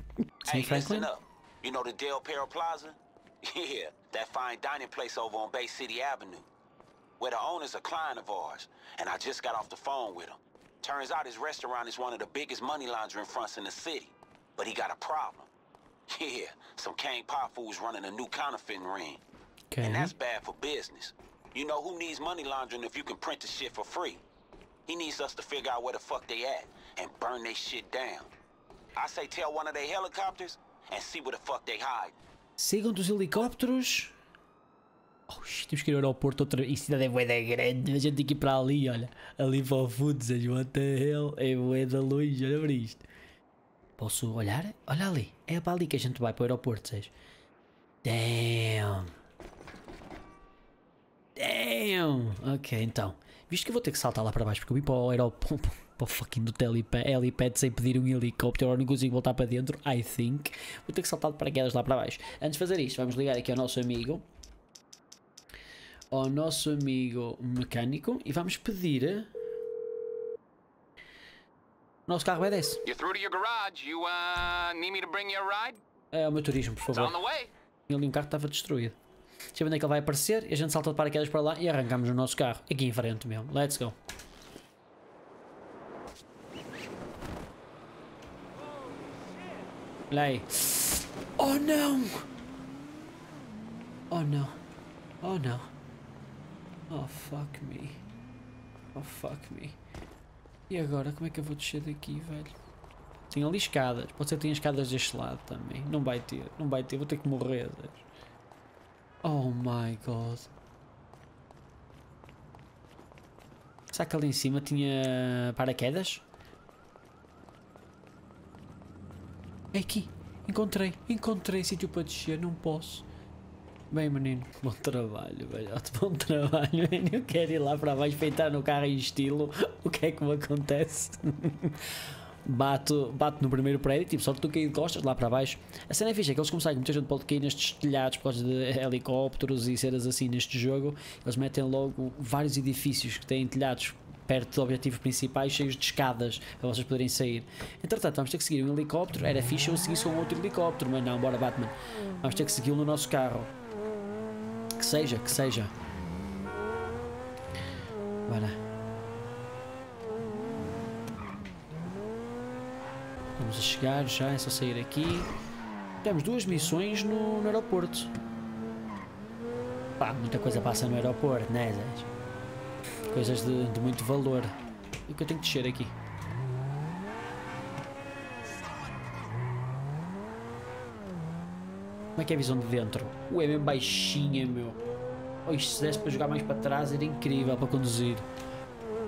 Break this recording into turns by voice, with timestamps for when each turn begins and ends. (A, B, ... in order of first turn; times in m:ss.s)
0:00.4-0:01.1 A
0:00.4-0:06.5 B
0:07.2-0:15.5 B
0:16.1-0:19.2 B
0:19.7-0:20.1 A
0:19.8-0:24.2 B
0:24.9-0:28.3 B
0:29.0-0:32.1 B
0:32.6-0:34.1 A
0:35.3-0:43.0 A
0:44.0-0:47.1 A
0:48.0-0:49.1 A
0:51.4-1:04.2 A
1:06.1-1:09.3 A
1:12.1-1:12.8 A
1:12.8-1:15.8 C
1:16.1-1:17.2 A
1:16.9-1:17.5 C
1:17.9-1:19.0 A
1:19.5-1:24.0 A
1:30.1-1:32.3 A
1:34.1-1:34.5 A
1:35.2-1:35.7 A
1:36.9-1:38.0 A
1:38.9-1:39.8 A
1:40.7-1:42.5 A
1:43.3-1:48.0 A
1:49.2-1:50.5 A
1:53.9-1:56.2 A
1:59.7-2:03.0 A
2:03.9-2:33.5 A
2:34.8-2:35.7 A
2:38.3-2:38.6 A
2:43.4-2:45.3 A
2:46.0-2:48.1 A
2:50.0-2:52.1 A
2:53.1-2:54.5 A
2:55.1-2:55.9 A
3:02.2-3:04.8 A
3:05.4-3:08.2 A